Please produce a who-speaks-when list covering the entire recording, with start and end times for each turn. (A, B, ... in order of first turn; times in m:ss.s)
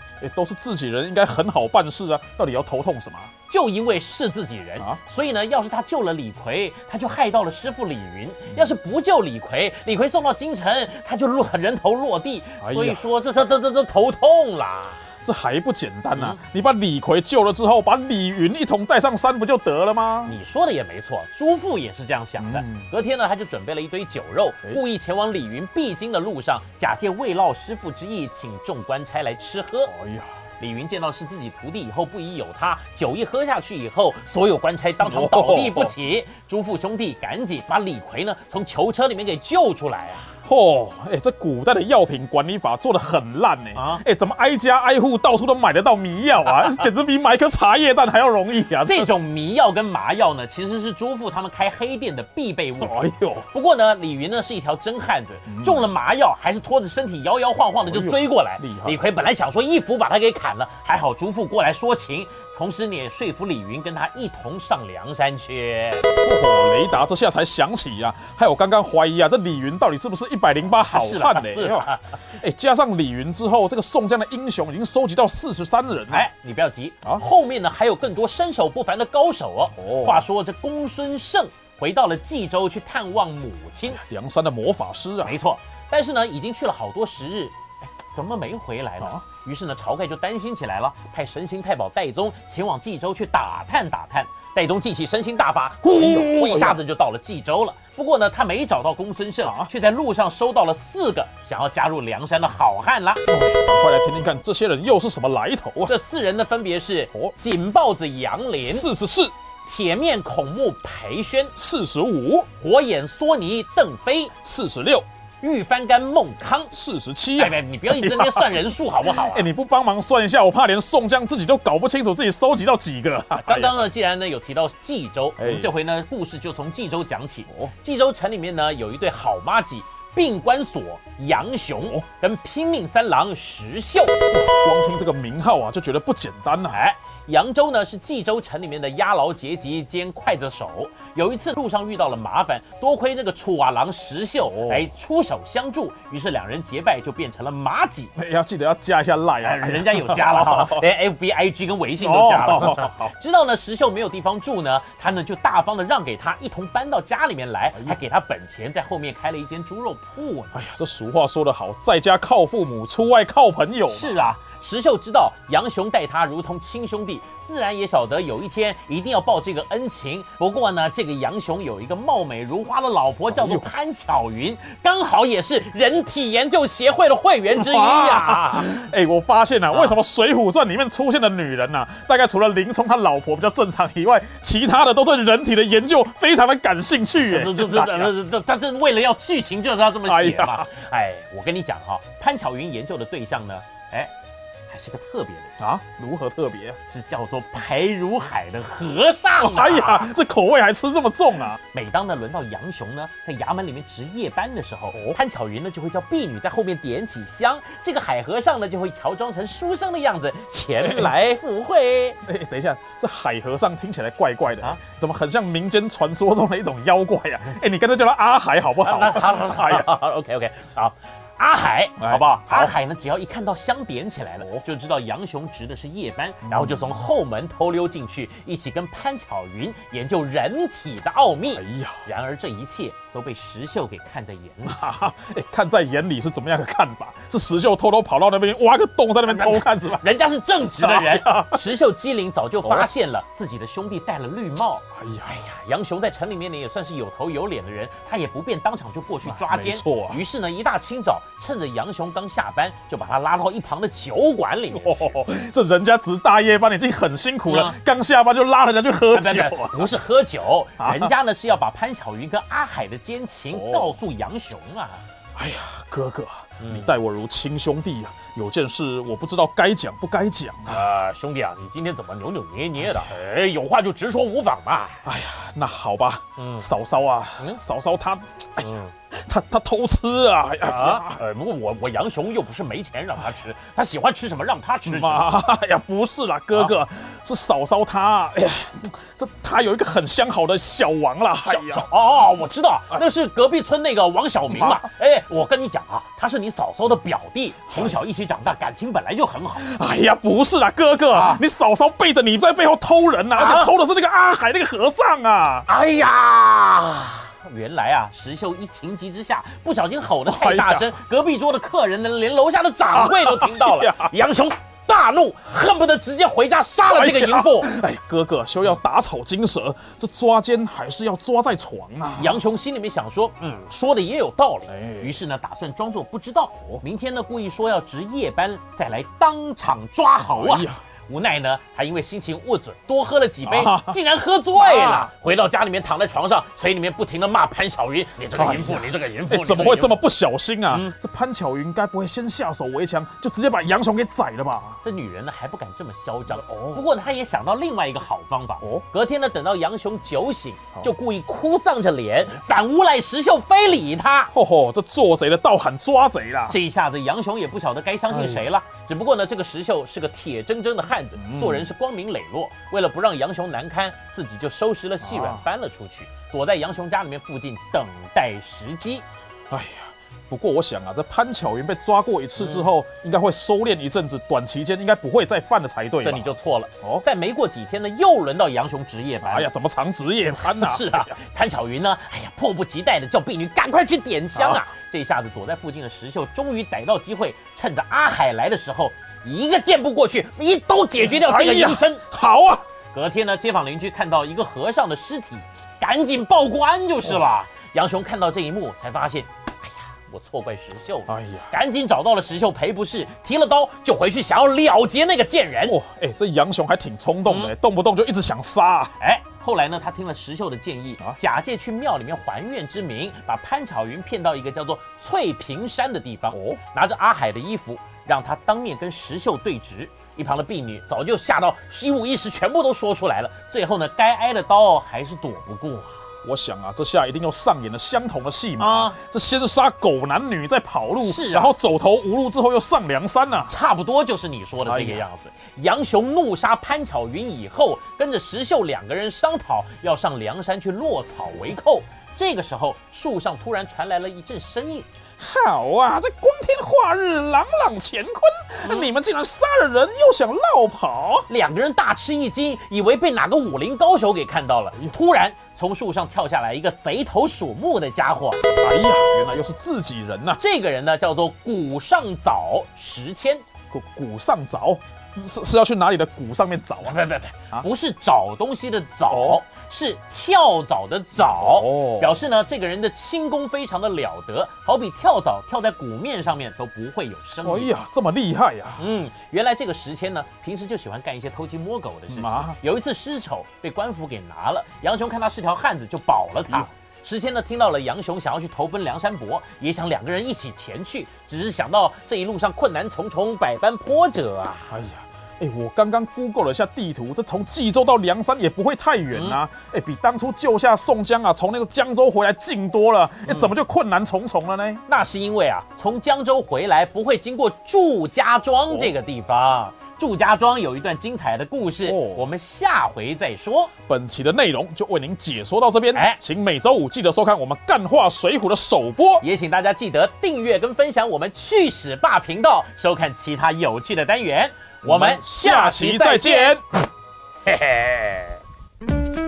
0:00.2-0:03.3 A
0:03.5-0:15.0 B
0:12.6-0:13.1 A
0:15.2-0:20.4 A
0:16.1-0:16.4 B
0:20.3-0:29.9 B
0:22.4-0:22.9 A
0:29.9-0:30.3 A
0:30.6-0:40.3 B
0:35.0-0:36.0 A
0:40.4-0:49.1 A
0:43.8-0:44.0 B
0:46.5-0:46.8 B
0:48.8-1:06.1 B
0:52.8-0:53.5 A
0:55.5-0:55.9 A
0:57.9-0:59.0 A
1:06.2-1:16.3 A
1:10.9-1:12.2 B
1:16.1-1:24.0 B
1:19.8-1:20.3 A
1:23.9-1:25.4 A
1:25.2-1:43.2 B
1:35.9-1:36.8 A
1:39.4-1:39.7 A
1:43.3-1:45.9 A
1:45.8-1:48.9 B
1:48.6-1:49.3 A
1:49.6-1:51.5 B
1:51.6-1:52.5 A
1:52.6-1:54.3 B
1:54.4-1:55.0 A
1:55.4-1:56.7 B
1:56.7-2:03.9 A
1:57.4-1:59.5 B
2:03.4-2:14.2 B
2:05.4-2:05.7 A
2:14.3-2:16.8 A
2:16.7-2:28.1 B
2:24.5-2:24.9 A
2:28.2-2:30.8 A
2:29.4-2:40.6 B
2:32.0-2:33.1 A
2:40.5-2:44.2 A
2:43.9-2:58.7 B
2:53.3-2:53.7 A
2:57.6-3:08.2 A
2:59.7-3:00.0 B
3:07.2-3:14.1 B
3:10.1-3:10.7 A
3:14.7-3:15.5 B
3:15.6-3:16.8 A
3:16.9-3:20.1 B
3:19.4-3:21.6 A
3:21.7-3:32.2 B
3:24.9-3:25.2 A
3:30.8-3:31.1 A
3:32.2-3:39.9 A
3:38.8-3:54.8 B
3:42.0-3:42.8 A
3:46.4-3:47.0 A
3:51.5-3:52.0 A
3:54.6-4:00.0 A
3:59.3-4:15.2 B
4:00.8-4:01.7 A
4:02.6-4:02.9 A
4:05.0-4:05.4 A
4:09.2-4:10.2 A
4:14.7-4:19.9 A
4:17.5-4:17.8 B
4:19.1-4:25.0 B
4:20.8-4:21.1 A
4:23.5-4:24.0 A
4:25.4-4:30.8 A
4:26.6-4:26.9 B
4:30.7-4:35.1 B
4:35.0-4:41.2 A
4:36.4-4:36.7 B
4:38.6-4:38.9 B
4:40.6-4:45.3 B
4:44.9-4:51.9 A
4:51.4-4:59.7 B
4:54.5-4:54.9 A
4:57.7-4:58.0 A
4:59.6-5:05.7 A
5:01.1-5:01.4 B
5:03.3-5:03.7 B
5:05.7-5:17.7 B
5:10.3-5:10.9 A
5:12.9-5:14.2 A
5:16.9-5:22.4 A
5:22.2-5:40.0 B
5:24.7-5:25.2 A
5:30.3-5:30.8 A
5:33.4-5:34.0 A
5:34.6-5:35.1 A
5:38.4-5:44.8 A
5:40.7-5:41.0 B
5:44.8-5:54.3 B
5:46.3-5:46.8 A
5:54.3-5:56.6 A
5:56.5-6:09.0 B
5:58.1-5:58.5 A
6:01.2-6:01.7 A
6:05.0-6:05.4 A
6:09.5-6:16.3 A
6:12.4-6:12.7 B
6:16.0-6:19.5 B
6:19.2-6:21.1 A
6:20.3-6:32.0 B
6:24.4-6:24.6 A
6:31.0-6:32.6 A
6:32.9-6:45.8 B
6:41.1-6:41.5 A
6:45.7-6:48.9 A
6:47.3-6:47.5 B
6:49.0-7:06.0 B
6:56.3-6:56.6 A
7:06.2-7:13.5 A
7:08.6-7:09.0 B
7:11.0-7:11.6 B
7:13.5-7:24.9 B
7:14.6-7:15.1 A
7:25.2-7:31.3 A
7:28.6-7:28.9 B
7:31.3-7:38.4 B
7:38.6-7:40.4 A
7:40.4-7:43.4 B
7:43.7-7:47.7 A
7:46.8-7:57.7 B
7:49.1-7:49.4 A
7:51.2-7:52.2 A
7:57.4-7:58.8 A
7:58.8-8:14.8 B
8:02.1-8:02.6 A
8:14.7-8:24.8 A
8:19.1-8:19.4 B
8:23.3-8:23.5 B
8:24.9-8:33.7 B
8:31.8-8:32.3 A
8:33.9-8:39.2 A
8:35.9-8:36.2 B
8:39.2-8:46.6 B
8:44.8-8:46.6 A
8:47.5-8:48.4 B